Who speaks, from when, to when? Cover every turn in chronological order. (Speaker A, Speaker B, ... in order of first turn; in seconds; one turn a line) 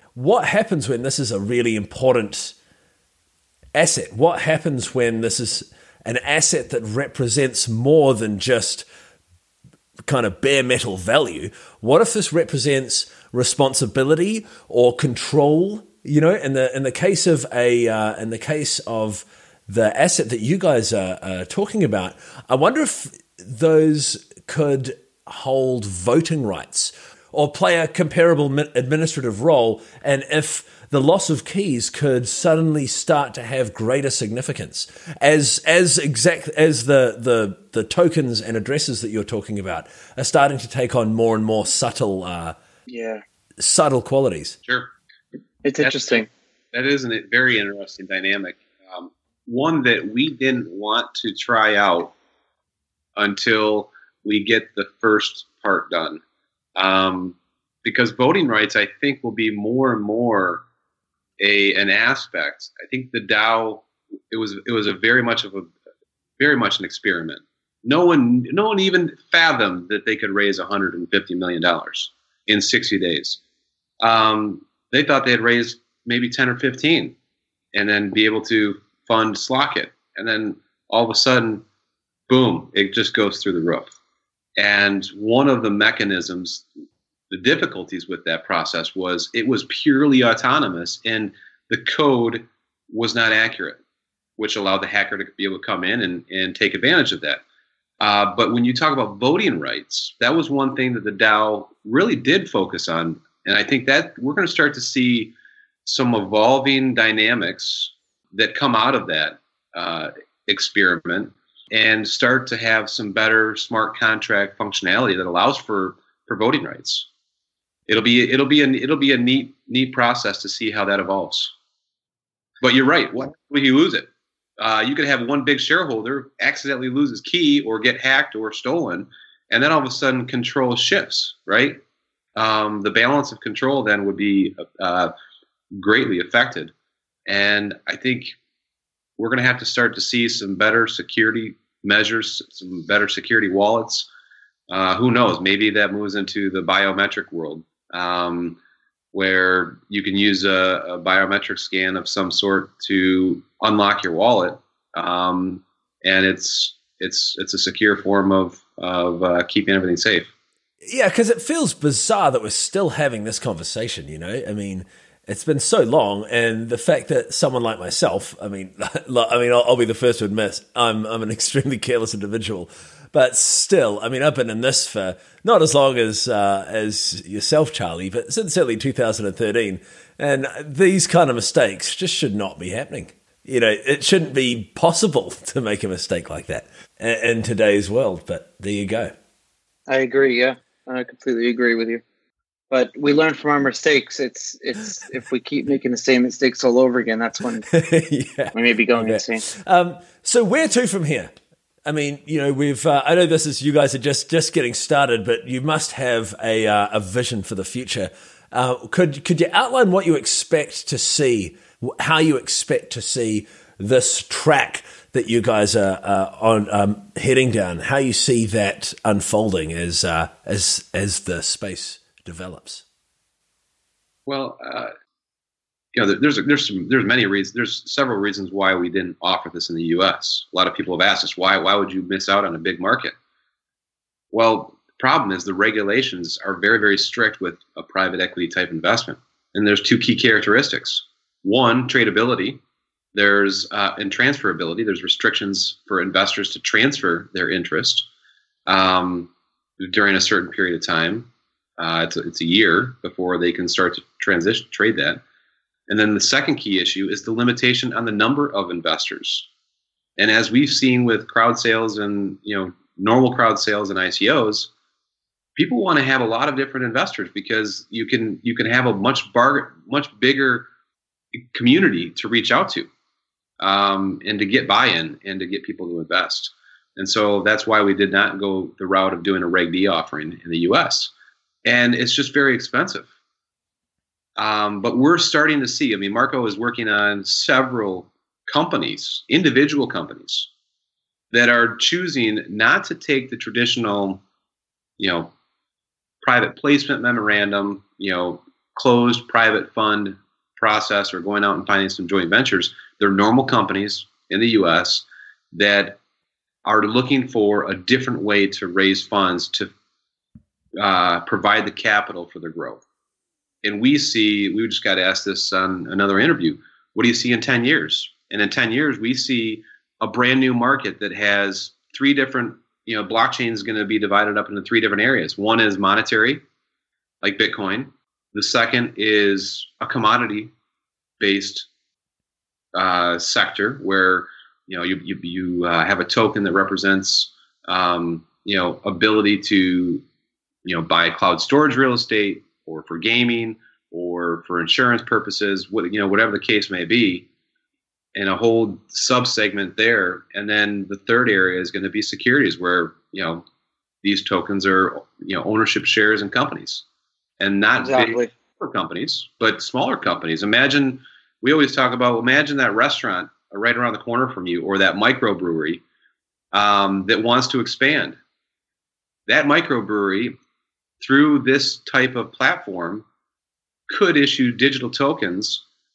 Speaker A: 0.1-2.5
Speaker A: 3.8-8.8
Speaker A: 10.1-42.6
Speaker B: 42.9-43.2
Speaker A: 43.6-44.6
Speaker C: 44.6-44.9
Speaker B: 45.6-46.3
Speaker C: 45.8-52.1
Speaker C: 53.1-56.2
Speaker C: 56.8-60.6
Speaker C: 61.4-65.7
Speaker C: 66.4-73.4
Speaker C: 74.0-77.2
Speaker C: 77.7-81.6
Speaker C: 82.3-83.9
Speaker C: 84.6-86.7
Speaker C: 87.3-93.8
Speaker C: 94.4-97.4
Speaker C: 98.0-105.3
Speaker C: 105.9-117.1
Speaker C: 117.9-121.5
Speaker C: 122.6-131.8
Speaker C: 132.4-135.1
Speaker C: 135.7-136.7
Speaker C: 137.3-138.3
Speaker C: 139.2-144.1
Speaker C: 144.7-148.6
Speaker C: 149.1-160.3
Speaker A: 160.8-189.1
Speaker B: 189.9-192.0
Speaker B: 192.7-197.7
Speaker A: 197.7-201.3
Speaker B: 198.5-199.4
Speaker A: 201.9-222.8
Speaker C: 224.3-224.9
Speaker C: 225.9-233.1
Speaker C: 234.3-242.6
Speaker C: 243.1-248.1
Speaker C: 248.7-255.2
Speaker C: 255.9-259.5
Speaker C: 260.2-264.7
Speaker C: 265.6-270.7
Speaker C: 271.4-272.9
Speaker C: 273.6-281.1
Speaker C: 281.6-283.1
Speaker C: 284.4-290.5
Speaker C: 291.3-294.2
Speaker C: 295.0-295.3
Speaker C: 296.2-306.0
Speaker C: 306.6-309.7
Speaker C: 310.8-312.8
Speaker C: 313.6-326.4
Speaker C: 327.2-330.5
Speaker C: 331.2-331.7
Speaker C: 332.8-340.0
Speaker C: 340.6-347.3
Speaker C: 348.1-353.4
Speaker C: 354.0-356.8
Speaker C: 357.4-365.8
Speaker B: 357.8-358.3
Speaker C: 366.5-368.2
Speaker C: 369.3-370.4
Speaker C: 371.0-373.1
Speaker C: 373.9-375.6